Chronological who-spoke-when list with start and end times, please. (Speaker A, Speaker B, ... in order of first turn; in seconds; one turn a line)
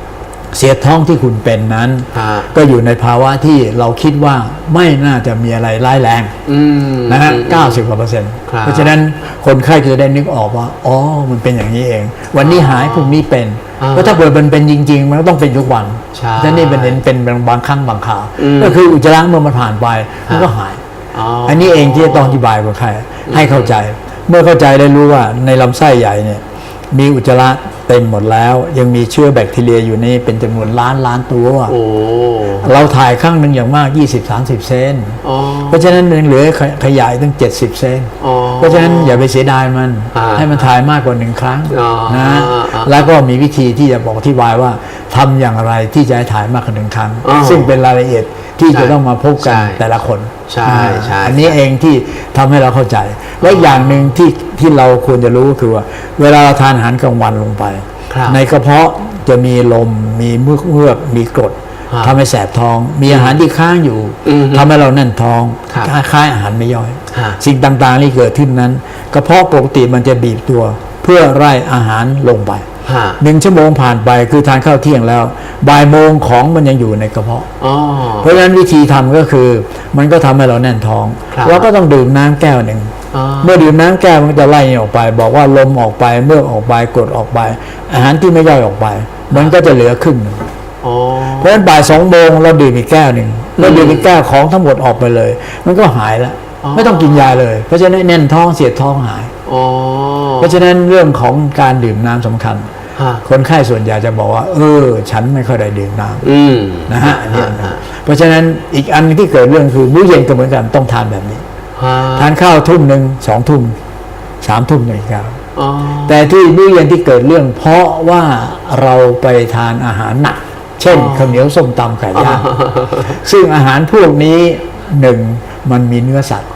Speaker A: 0.5-6.3
Speaker B: 2.1-2.5
Speaker B: 6.5-7.8
Speaker A: 7.1-20.8
Speaker B: 8.5-9.0
Speaker B: 12.4-13.2
Speaker B: 13.8-14.2
Speaker B: 16.1-17.0
Speaker B: 18.4-18.8
Speaker B: 20.3-20.5
Speaker B: 21.1-22.4
Speaker A: 21.4-31.8
Speaker B: 23.3-23.8
Speaker B: 31.7-32.8
Speaker A: 32.6-72.7
Speaker B: 35.2-35.9
Speaker B: 38.2-39.3
Speaker B: 40.1-40.7
Speaker B: 41.7-43.1
Speaker B: 47.2-47.7
Speaker B: 48.7-49.8
Speaker B: 50.5-51.6
Speaker B: 53.4-54.1
Speaker B: 58.1-58.4
Speaker B: 61.9-62.1
Speaker B: 63.1-63.4
Speaker B: 64.2-64.7
Speaker B: 67.1-67.4
Speaker B: 72.8-73.2
Speaker A: 73.2-77.5
Speaker B: 77.6-78.4
Speaker A: 78.2-90.5
Speaker B: 81.3-81.7
Speaker B: 83.1-83.7
Speaker B: 89.3-89.6
Speaker B: 90.8-91.6
Speaker A: 91.3-99.3
Speaker B: 93.6-94.1
Speaker B: 96.6-97.4
Speaker B: 99.5-100.6
Speaker A: 100.4-102.7
Speaker B: 103.0-103.2
Speaker A: 103.2-106.2
Speaker B: 106.2-107.8
Speaker A: 106.9-111.4
Speaker B: 111.8-112.3
Speaker A: 112.1-113.8
Speaker A: 114.4-115.4
Speaker B: 115.5-116.3
Speaker A: 116.0-122.5
Speaker B: 120.9-121.5
Speaker B: 122.1-123.2
Speaker A: 123.0-126.5